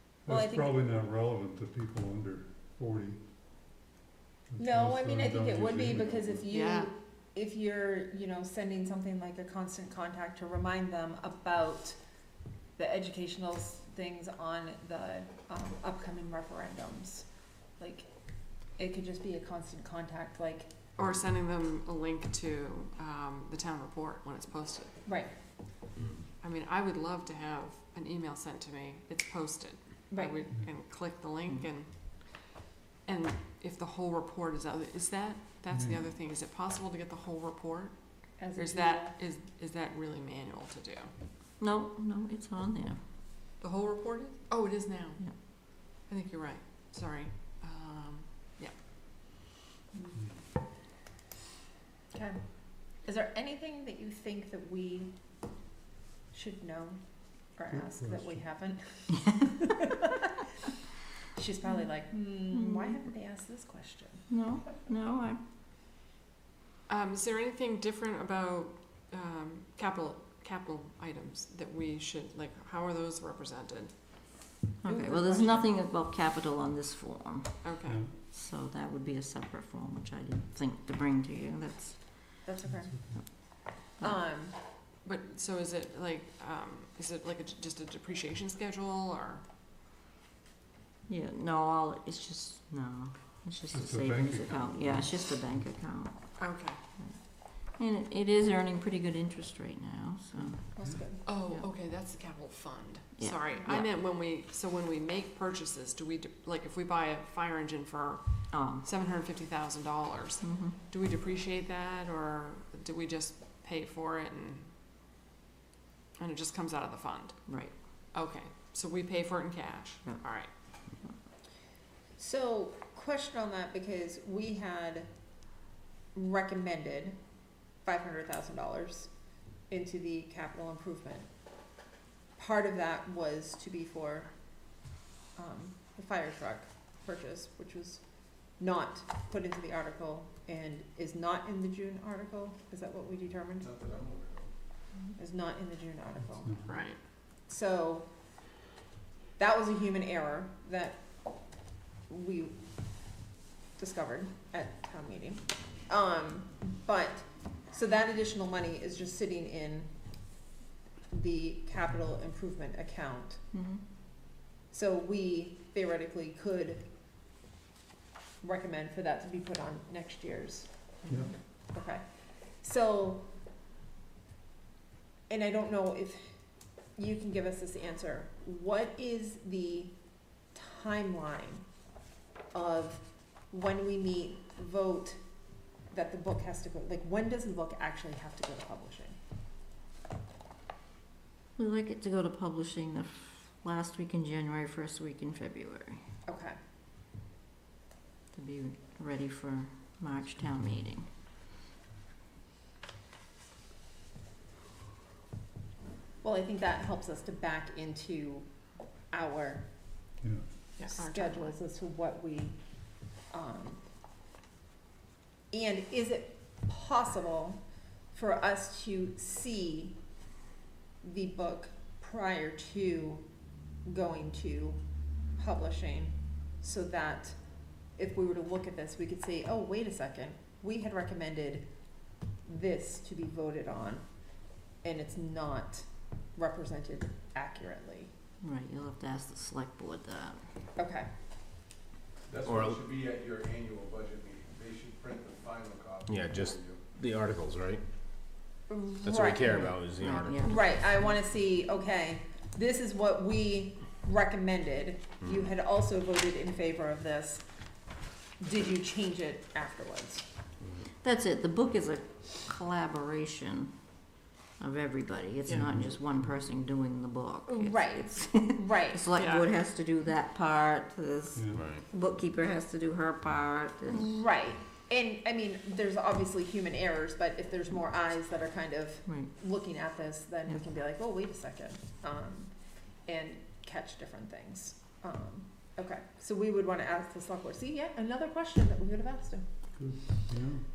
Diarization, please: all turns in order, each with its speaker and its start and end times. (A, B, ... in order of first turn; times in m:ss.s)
0:00.2-0:03.3 A
0:00.3-0:00.7 B
0:04.5-0:06.4 A
0:04.6-0:12.0 B
0:06.5-0:06.9 C
0:12.8-0:20.9 B
0:21.0-0:25.0 C
0:25.0-0:25.4 B
0:26.4-0:32.5 C
0:30.1-0:30.5 B
0:33.0-0:41.1 C
0:35.7-0:36.1 A
0:38.4-0:39.2 B
0:41.6-0:43.0 D
0:43.6-0:48.8 C
0:50.1-0:50.4 A
0:52.1-0:55.6 B
0:56.3-0:59.6 B
0:57.7-0:58.5 A
1:01.3-1:04.3 B
1:02.4-1:03.1 D
1:04.3-1:05.4 D
1:06.9-1:14.2 C
1:14.8-1:22.4 D
1:14.8-1:15.7 B
1:17.6-1:18.0 C
1:17.8-1:18.1 A
1:22.4-1:24.6 B
1:22.6-1:23.2 A
1:23.1-1:24.2 D
1:25.0-1:29.4 C
1:31.1-1:36.4 D
1:33.7-1:35.6 A
1:36.4-1:36.8 C
1:37.0-1:40.8 D
1:40.7-1:41.3 B
1:41.2-1:54.7 C
1:41.4-1:41.7 D
1:43.2-1:43.9 D
1:48.5-1:48.9 D
1:50.4-1:50.8 D
1:56.2-1:57.5 C
1:57.5-1:57.8 D
1:58.0-2:00.6 C
2:02.2-2:05.3 B
2:06.1-2:07.2 B
2:07.8-2:11.3 B
2:12.4-2:14.8 B
2:15.3-2:23.7 B
2:23.6-2:24.5 E
2:25.2-2:26.5 B
2:26.2-2:26.9 A
2:26.7-2:27.0 C
2:27.4-2:28.1 B
2:29.4-2:32.5 B
2:33.8-2:39.9 B
2:41.1-2:43.4 B
2:43.5-2:43.9 D
2:44.7-2:46.9 B
2:48.4-2:51.0 B
2:51.0-2:51.3 D
2:51.1-2:51.3 A
2:51.5-2:53.3 B
2:55.3-2:56.4 B
2:56.9-3:01.7 B
3:02.5-3:05.2 B
3:05.9-3:09.2 B
3:11.6-3:16.0 D
3:16.2-3:16.6 B
3:18.3-3:21.1 D
3:26.2-3:29.7 B
3:30.2-3:30.4 A
3:30.8-3:31.6 C
3:30.8-3:33.8 B
3:35.5-3:40.1 B
3:41.0-3:58.1 B
3:58.4-4:00.6 D
4:00.8-4:01.1 B
4:02.3-4:06.8 E
4:02.4-4:02.8 F
4:06.1-4:07.8 F
4:08.7-4:09.8 B
4:09.0-4:10.8 F
4:09.9-4:11.1 D
4:10.4-4:17.8 B
4:15.2-4:15.5 F
4:18.4-4:20.3 B
4:20.9-4:23.8 D
4:24.6-4:34.1 D
4:25.5-4:26.3 A
4:27.5-4:29.1 B
4:29.2-4:29.5 C
4:31.3-4:31.7 A
4:31.5-4:31.8 F
4:33.9-4:49.4 B
4:39.0-4:39.4 D
4:49.8-4:50.7 A